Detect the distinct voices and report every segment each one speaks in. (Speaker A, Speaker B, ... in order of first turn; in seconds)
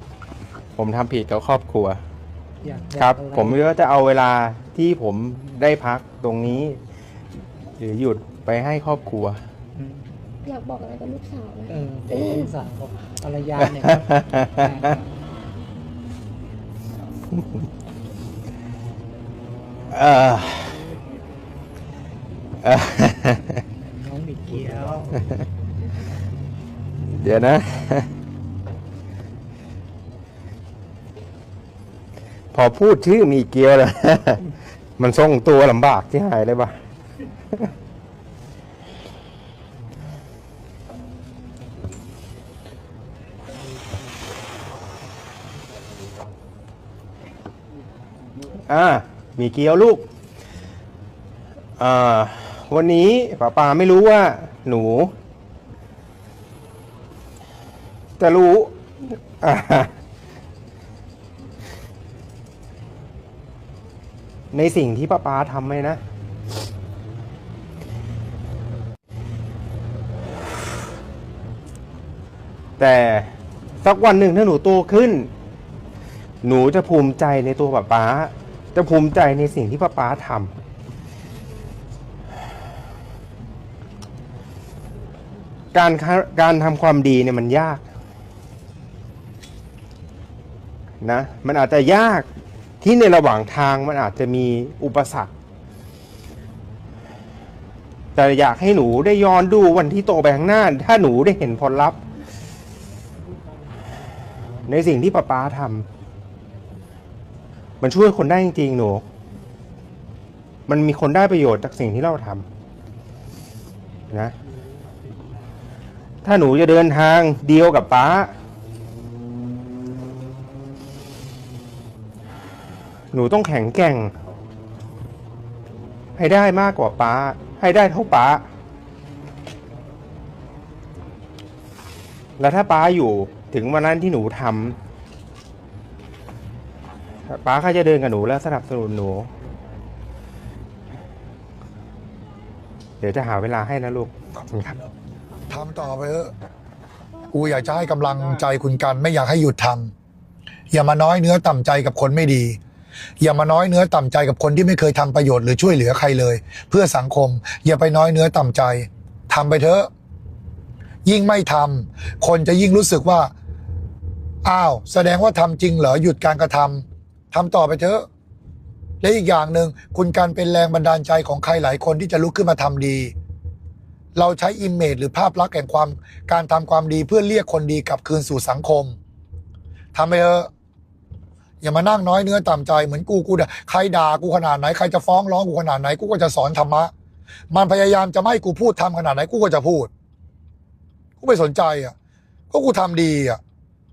Speaker A: 0.8-2.0, 3.0-6.8, 7.8-9.4, 13.7-15.0, 19.9-20.9, 22.6-23.6, 27.1-28.1, 32.5-36.8, 48.7-50.0, 51.8-55.1, 58.2-58.8, 59.3-59.9, 64.5-66.0, 72.8-75.3, 76.4-80.5, 85.7-87.8, 91.0-92.3, 92.8-95.3, 98.2-102.0, 104.7-105.9, 107.8-109.0, 110.7-112.5, 116.2-118.3, 123.1-124.1, 126.2-128.4, 132.4-134.8, 137.3-139.3, 143.0-144.9
Speaker B: 2.6-3.6, 9.8-10.0, 11.7-15.0, 24.0-25.2
Speaker C: 10.4-12.5
Speaker D: 145.5-146.3, 147.3-149.9, 150.7-152.6, 153.2-159.9, 161.1-163.3, 164.4-168.1, 169.0-173.1, 174.2-179.0, 179.9-180.5, 181.6-186.9, 187.5-189.9, 191.2-191.9, 192.5-193.4